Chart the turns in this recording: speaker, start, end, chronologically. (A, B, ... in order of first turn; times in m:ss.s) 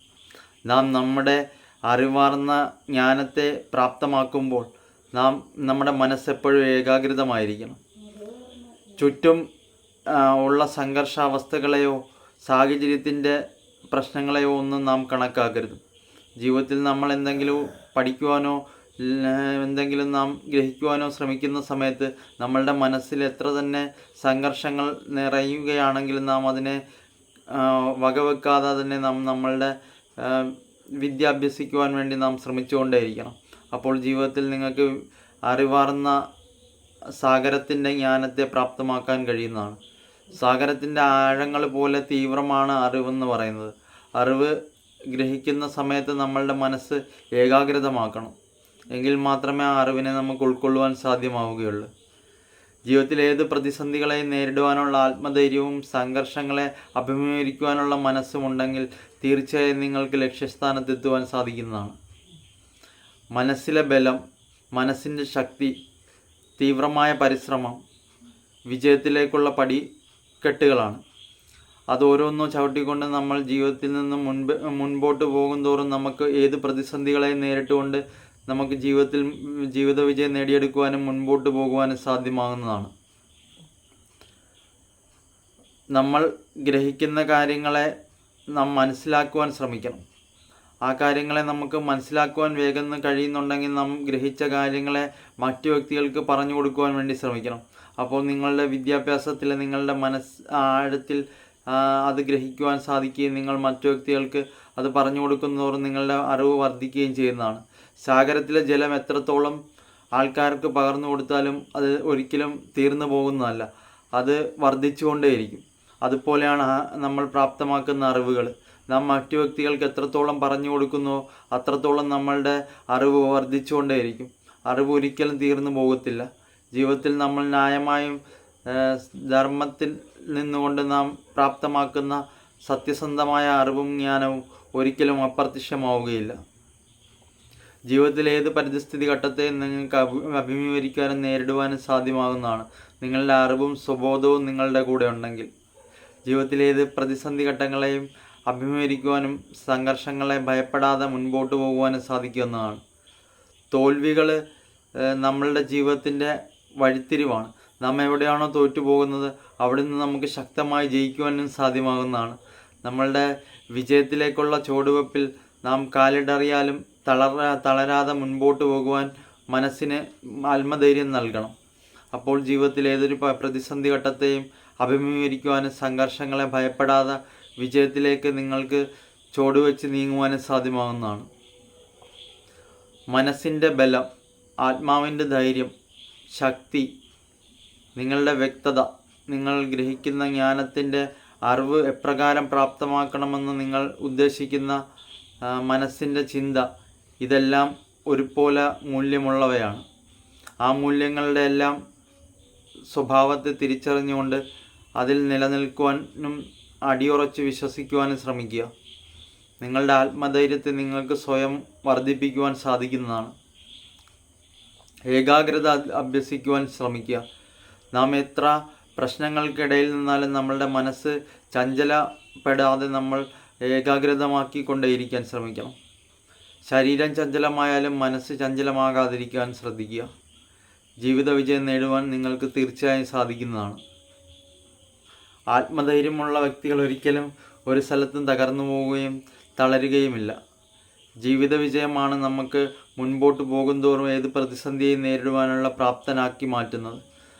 0:00.7-0:07.8 A
0:09.0-0:09.4 A
0:10.1-0:13.4 A
0:13.9-0:15.8 A
0:16.4-0:26.8 A
0:27.5-0:34.9 A
0:35.5-0:36.2 A
0:37.2-0:39.8 A
0:40.4-0:44.5 A
0:45.1-0:48.3 A
0:48.9-0:51.9 A
0:52.9-1:02.0 A
1:03.3-1:04.2 A
1:04.7-1:05.7 A
1:06.6-1:07.8 A
1:08.7-1:09.8 A
1:10.4-1:11.0 A
1:11.9-1:22.9 A
1:25.9-1:27.9 A
1:28.5-1:30.0 A
1:30.8-1:49.6 A
1:50.2-2:16.4 A
2:17.9-2:25.5 A
2:26.2-2:32.8 A
2:33.7-2:34.4 A
2:35.0-2:51.5 A
2:52.1-3:01.3 A
3:03.1-3:04.1 A
3:04.6-3:05.7 A
3:06.3-3:06.9 A
3:08.0-3:14.8 A
3:15.4-3:16.6 A
3:17.2-3:19.8 A
3:20.6-3:21.8 A
3:22.9-3:24.4 A
3:25.0-3:28.7 A
3:29.6-3:33.3 A
3:35.1-3:37.2 A
3:37.9-3:45.7 A
3:46.7-3:50.1 A
3:51.0-3:53.8 A
3:55.5-4:00.3 A
4:01.2-4:07.0 A